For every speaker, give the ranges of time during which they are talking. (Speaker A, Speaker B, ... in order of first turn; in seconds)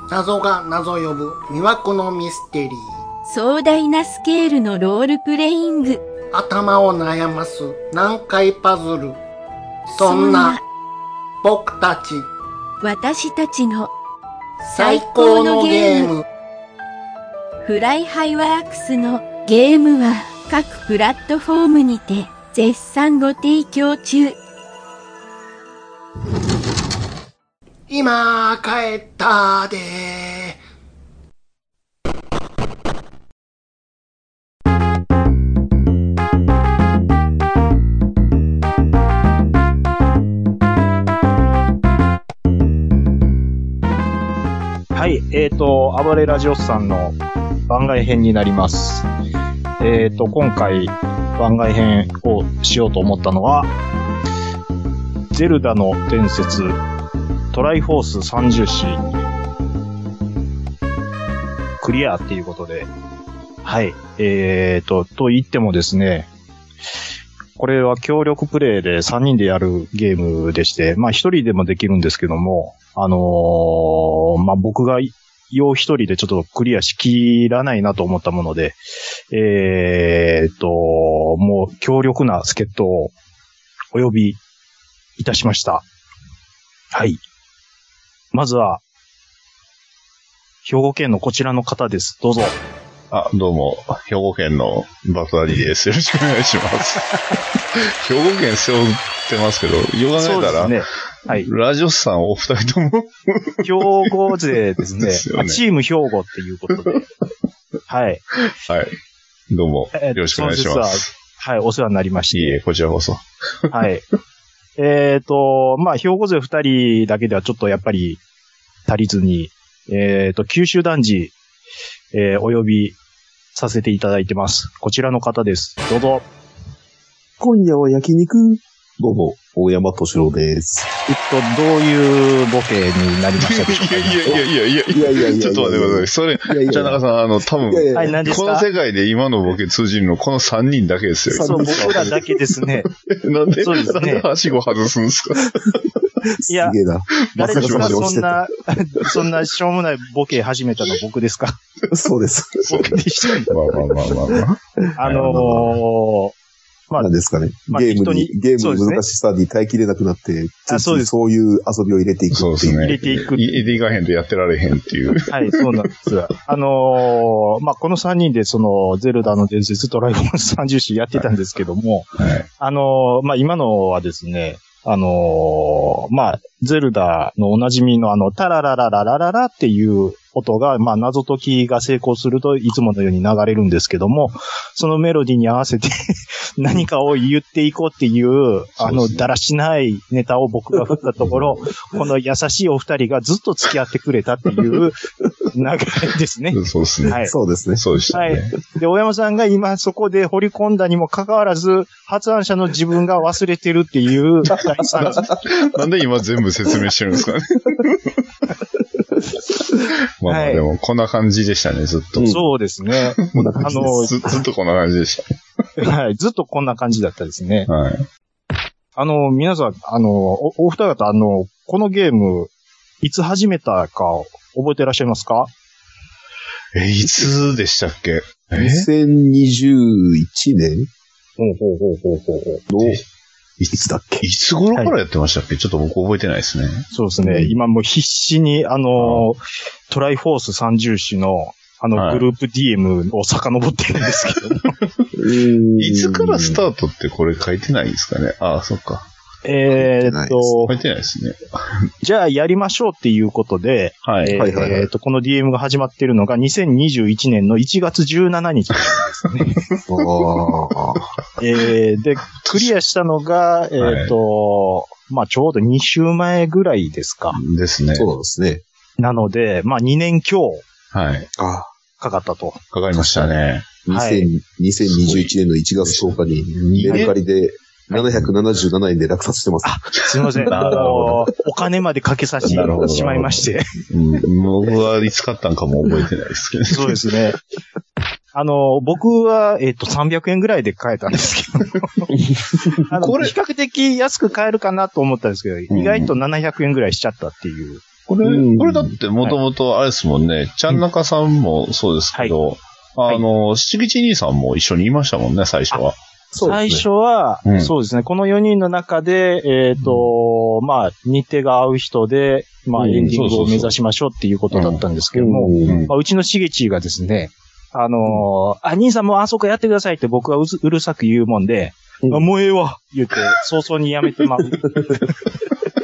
Speaker A: 0.1-2.9, 6.3-9.2, 9.9-10.6, 11.4-12.3, 14.7-16.2, 27.9-30.6
Speaker B: 3.2-6.0, 10.0-10.6, 12.8-13.9, 14.6-16.1, 17.6-24.4
Speaker C: 44.9-49.1, 49.8-53.7, 55.3-56.8, 57.5-59.2, 61.8-62.9, 63.6-66.3, 67.6-78.8, 79.3-83.1, 83.9-84.4, 85.2-85.8, 86.9-87.2, 88.3-88.8, 90.6-92.6, 100.2-101.5, 103.6-107.0, 107.9-108.2, 109.9-112.6, 113.7-114.0, 114.8-118.2, 118.9-121.3, 122.1-123.0, 123.5-126.2, 131.1-134.4, 137.9-138.7, 141.4-142.9, 143.6-144.2, 146.5-146.8, 147.3-151.6, 152.7-153.6, 155.0-156.3, 157.7-159.0, 160.7-161.1, 162.8-163.6, 165.3-185.9, 186.6-195.0, 195.5-197.3, 198.1-205.3, 210.3-210.6, 212.2-214.1, 215.8-217.7, 219.0-222.5, 223.0-225.5, 231.4-232.6, 236.9-244.7, 249.4-250.7, 252.0-259.6, 261.4-267.4, 269.0-270.6, 272.0-272.6, 273.9-274.3, 279.6-283.7, 286.7-287.4, 288.3-292.2, 292.7-297.8, 306.4-325.1
Speaker D: 93.1-97.2, 97.7-104.1, 105.0-105.6, 106.8-107.0, 108.5-109.0, 109.5-111.1, 112.3-113.7, 133.4-142.1, 143.0-145.8, 147.3-148.2, 153.5-155.5, 162.3-165.6, 172.2-172.4, 188.8-189.2, 196.5-197.2, 197.8-198.5, 205.1-208.1, 210.2-212.4, 213.2-215.3, 217.7-218.1, 226.7-228.9, 233.6-236.9, 239.0-239.2, 241.9-242.2, 245.8-249.1, 250.7-251.9, 254.0-254.5, 262.4-262.7, 263.8-264.1, 267.3-268.1, 270.9-271.3, 272.7-273.7, 274.8-277.2, 280.3-281.2, 282.4-287.0, 292.9-293.3, 295.7-296.1, 298.1-305.9, 307.4-307.7, 313.1-313.7, 314.5-314.8, 315.6-315.9
Speaker E: 127.4-130.9, 134.9-137.0, 137.6-138.4, 141.3-142.2, 146.4-148.4, 151.9-153.0, 153.9-154.4, 155.2-155.7, 157.0-163.0, 197.2-197.8, 205.0-205.4, 212.2-212.4, 213.3-214.4, 228.6-230.9, 232.7-233.0, 233.7-234.2, 237.3-237.5, 245.1-246.6, 249.7-250.5, 254.3-254.9, 259.9-261.1, 267.9-268.6, 271.4-271.7, 272.9-273.3, 273.8-279.8, 280.5-281.1, 282.4-282.9, 298.2-298.9, 306.3-306.8, 312.8-313.2, 315.1-315.9, 324.8-325.1